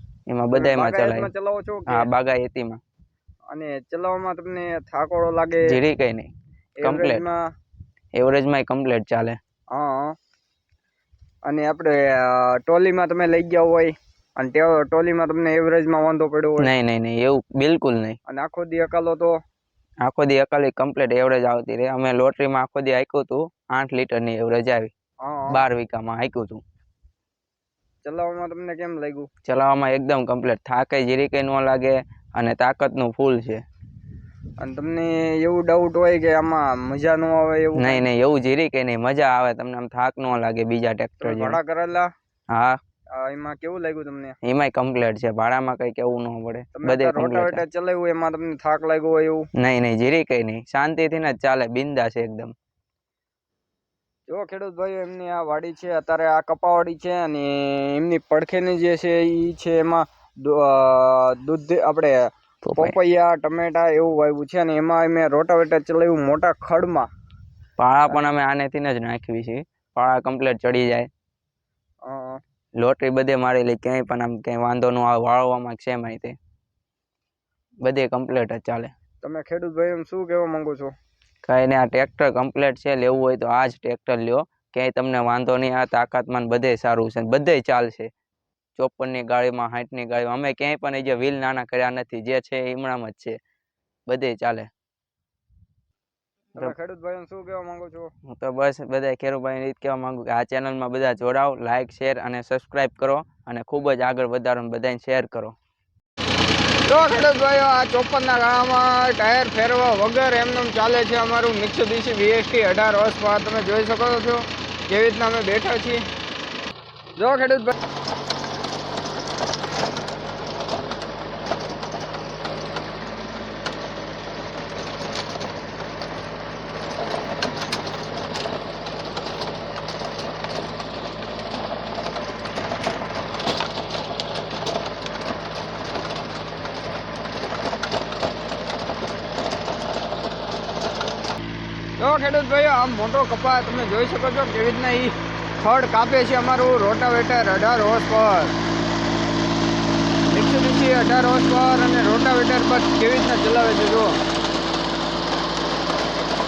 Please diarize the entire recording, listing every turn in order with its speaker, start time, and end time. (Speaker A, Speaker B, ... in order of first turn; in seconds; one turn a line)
Speaker A: 0.3-1.3
Speaker B: 0.5-2.1
Speaker A: 1.9-2.8
Speaker B: 3.5-5.8
Speaker A: 5.7-6.3
Speaker B: 6.8-7.4
Speaker A: 6.8-7.2
Speaker A: 8.2-9.4
Speaker B: 9.7-10.2
Speaker B: 11.4-16.7
Speaker A: 16.6-18.2
Speaker B: 18.3-19.4
Speaker A: 20.0-24.9
Speaker B: 25.2-25.6
Speaker A: 25.5-26.6
Speaker B: 28.0-29.3
Speaker A: 29.4-33.6
Speaker B: 34.6-38.0
Speaker A: 37.8-41.6
Speaker B: 41.2-42.1
Speaker A: 42.5-42.8
Speaker B: 43.2-44.4
Speaker A: 44.4-47.6
Speaker B: 46.8-49.5
Speaker A: 49.6-52.5
Speaker B: 54.3-62.2
Speaker A: 62.6-63.0
Speaker B: 62.8-67.1
Speaker A: 67.8-71.1
Speaker B: 72.0-72.4
Speaker A: 72.8-76.4
Speaker A: 77.8-78.9
Speaker B: 79.2-80.9
Speaker A: 81.5-88.1
Speaker A: 88.8-93.4
Speaker A: 94.1-94.7
Speaker B: 96.5-98.1
Speaker A: 98.3-105.6
Speaker B: 106.9-116.0
Speaker B: 117.2-117.8
Speaker B: 142.0-148.5
Speaker B: 150.3-154.2